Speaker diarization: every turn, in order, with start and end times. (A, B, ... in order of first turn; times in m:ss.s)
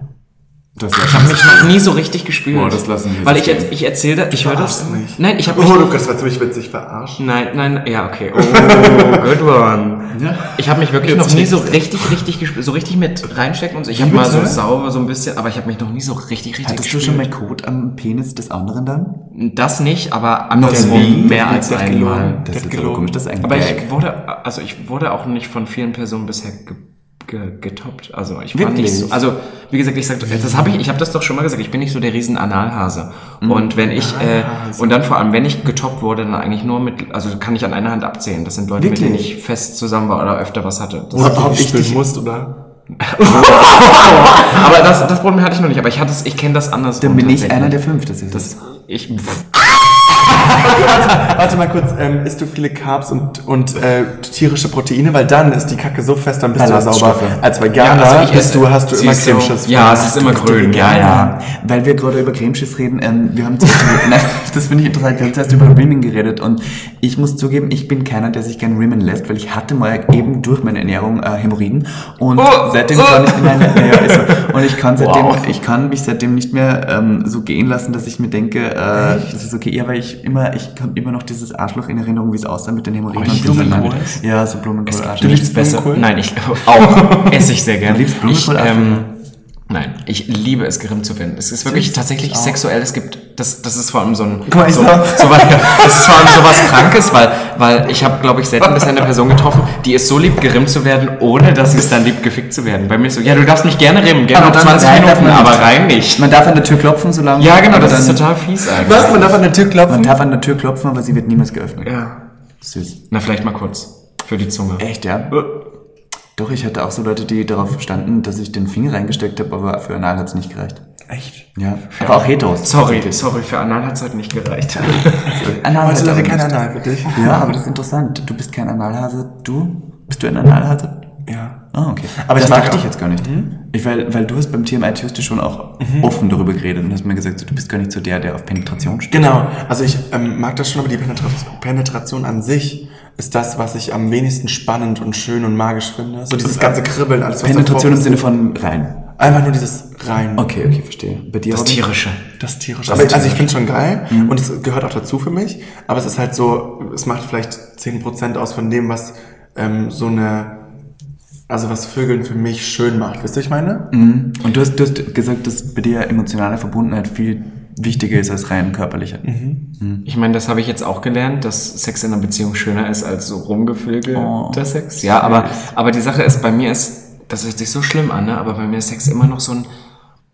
0:00.8-0:01.7 A
0:01.0-0:06.0 B
0:02.5-0:03.7 A
0:04.3-0:07.2 C
0:07.2-0:17.3 B
0:08.3-0:09.3 C
0:10.1-0:12.2 A
0:13.9-0:14.6 C
0:16.6-0:19.2 A
0:19.3-0:22.4 B
0:20.5-0:21.8 A
0:20.7-0:23.1 C
0:22.4-0:23.9 A
0:23.4-0:41.4 B
0:28.5-0:29.2 A
0:30.3-0:30.7 C
0:33.4-0:33.8 A
0:33.8-0:35.0 C
0:38.8-0:39.3 A
0:41.1-0:42.6 C
0:41.1-0:42.0 A
0:43.0-0:47.8 B
0:47.0-0:48.6 A
0:48.3-0:51.3 B
0:50.5-1:01.0 C
0:56.5-0:57.4 A
0:57.8-1:01.3 B
1:00.8-1:25.6 A
1:12.4-1:15.6 B
1:18.9-1:19.3 C
1:23.1-1:24.2 C
1:23.2-1:23.9 B
1:24.9-1:29.1 B
1:25.2-1:26.1 C
1:26.7-1:27.4 C
1:27.8-1:29.0 A
1:29.7-1:46.3 B
1:31.7-1:32.6 C
1:34.5-1:36.9 C
1:44.3-1:48.2 A
1:47.4-1:49.4 B
1:48.7-1:50.1 C
1:49.9-1:51.9 A
1:51.8-1:52.2 B
1:52.6-1:53.0 A
1:53.1-1:55.5 B
1:54.8-1:55.4 A
1:56.4-2:00.8 A
2:01.1-2:01.5 C
2:01.5-2:03.2 A
2:01.9-2:05.4 B
2:04.8-2:07.4 C
2:05.2-2:06.6 A
2:07.1-2:11.0 A
2:11.2-2:13.5 C
2:11.7-2:19.4 A
2:15.8-2:16.2 C
2:19.1-2:28.3 C
2:26.4-2:26.8 A
2:27.4-2:29.2 A
2:29.2-2:30.5 C
2:30.4-2:31.9 A
2:31.5-2:32.2 B
2:32.4-2:40.6 C
2:32.9-2:33.5 B
2:32.9-2:33.4 A
2:34.1-2:34.4 A
2:41.5-2:43.9 C
2:43.9-2:49.2 A
2:49.2-2:49.6 C
2:49.8-2:50.0 A
2:50.0-2:59.7 B
2:54.1-2:55.7 A